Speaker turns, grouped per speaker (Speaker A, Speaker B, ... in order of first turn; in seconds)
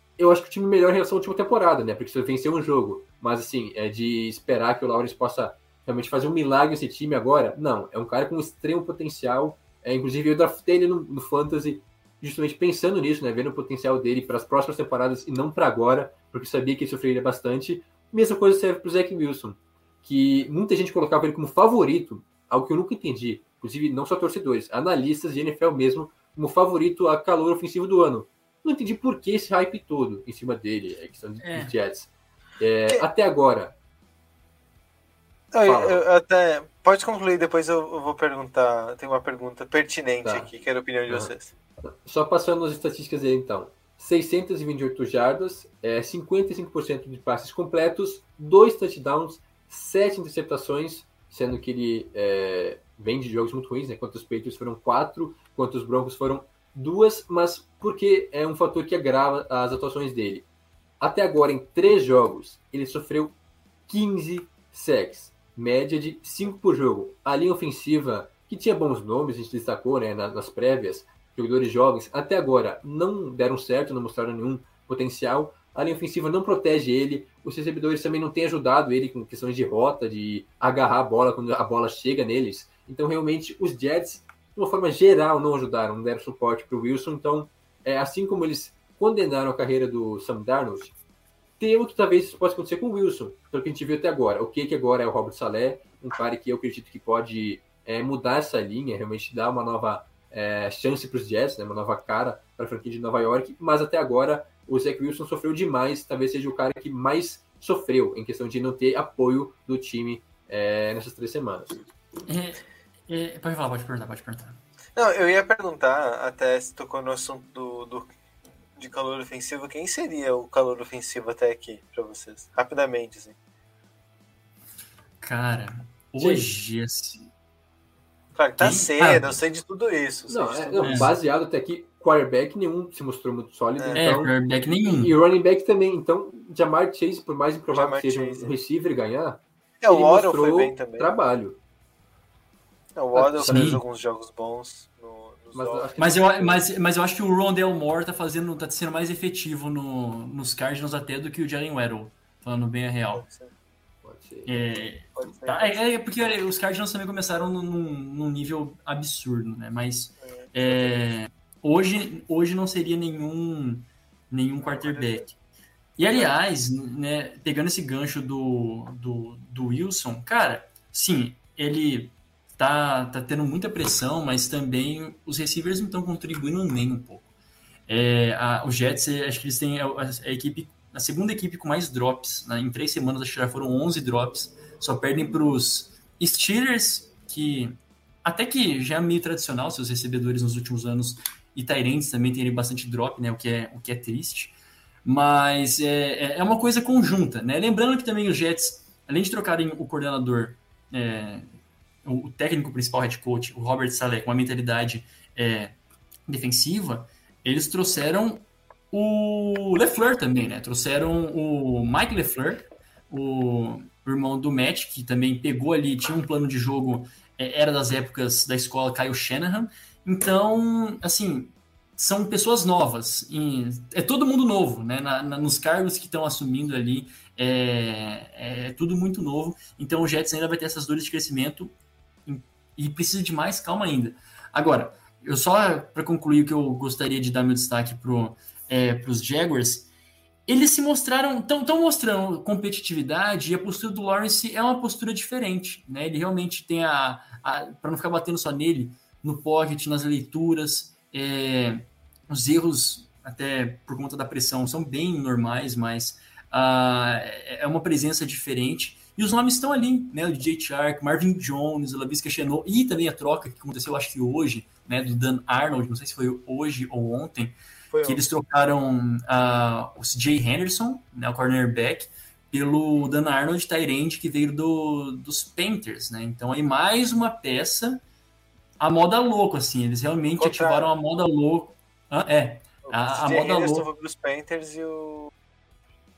Speaker A: 0.2-33.8, 35.6-36.0, 40.2-40.5, 41.8-60.5, 61.0-63.4, 63.9-90.9, 91.6-111.8, 130.3-141.6, 143.2-143.7, 145.5-146.6, 154.0-154.5
Speaker B: 31.4-31.7, 112.3-114.6, 125.2-127.3, 128.6-129.3, 130.8-131.1, 133.9-135.1, 143.4-143.8, 146.0-153.2, 154.5-165.3, 166.0-177.3, 177.9-201.5, 202.1-205.8, 206.3-231.7, 232.3-239.9, 240.5-278.0, 278.8-283.9
Speaker C: 35.5-41.5, 115.0-118.1, 118.8-123.4, 128.3-131.1, 133.8-134.1, 137.7-138.5, 139.8-141.1, 143.0-145.9, 153.1-153.5, 155.2-155.8, 160.3-160.9, 164.6-165.3, 267.9-268.3, 280.4-280.9, 282.9-285.3